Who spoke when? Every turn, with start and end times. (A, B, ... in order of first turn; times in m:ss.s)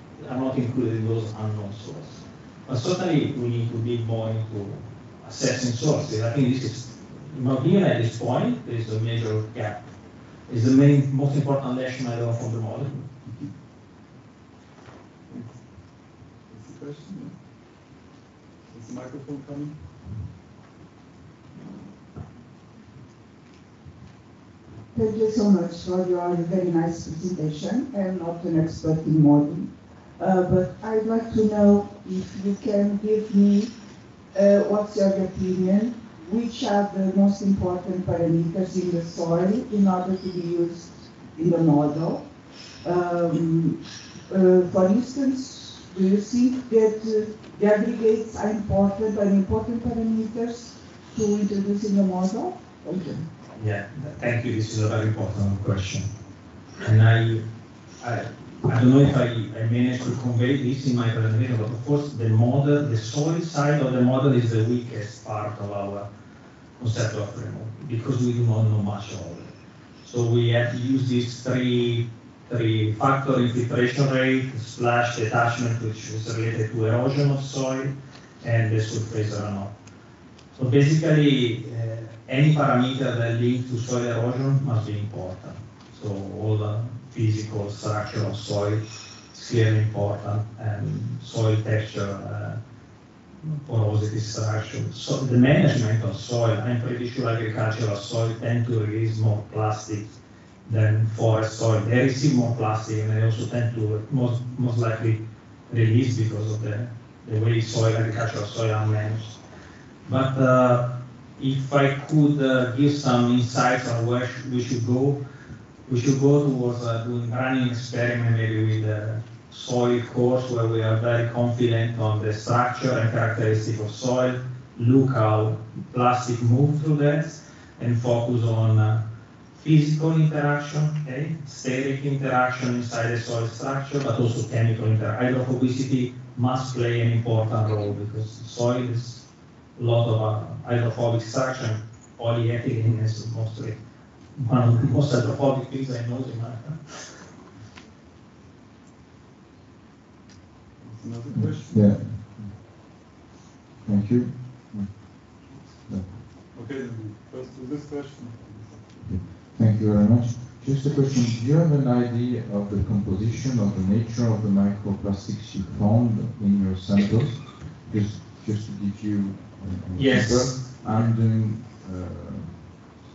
0:00.2-0:09.8 A
0:10.5-0:13.1 A
0:15.3-0:15.6 B
0:16.5-0:17.4 B
0:18.7-0:19.8 B
0:24.9-0:33.7 C
0:34.3-0:42.2 C
0:42.8-0:53.2 C
0:53.6-0:56.1 A
0:56.8-0:57.4 A
0:58.0-1:06.1 A
1:06.8-1:19.7 A
1:20.6-1:32.6 A
1:33.4-1:49.4 A
1:50.0-1:55.2 A
1:55.9-2:09.0 A
2:09.5-2:19.2 A
2:19.8-2:23.8 A
2:24.4-2:27.0 A
2:30.8-2:32.1 B
2:31.4-2:32.6 D
2:33.8-2:35.0 D
2:35.8-2:36.2 D
2:36.5-2:39.0 B
2:39.0-2:52.9 D
2:49.9-2:51.1 A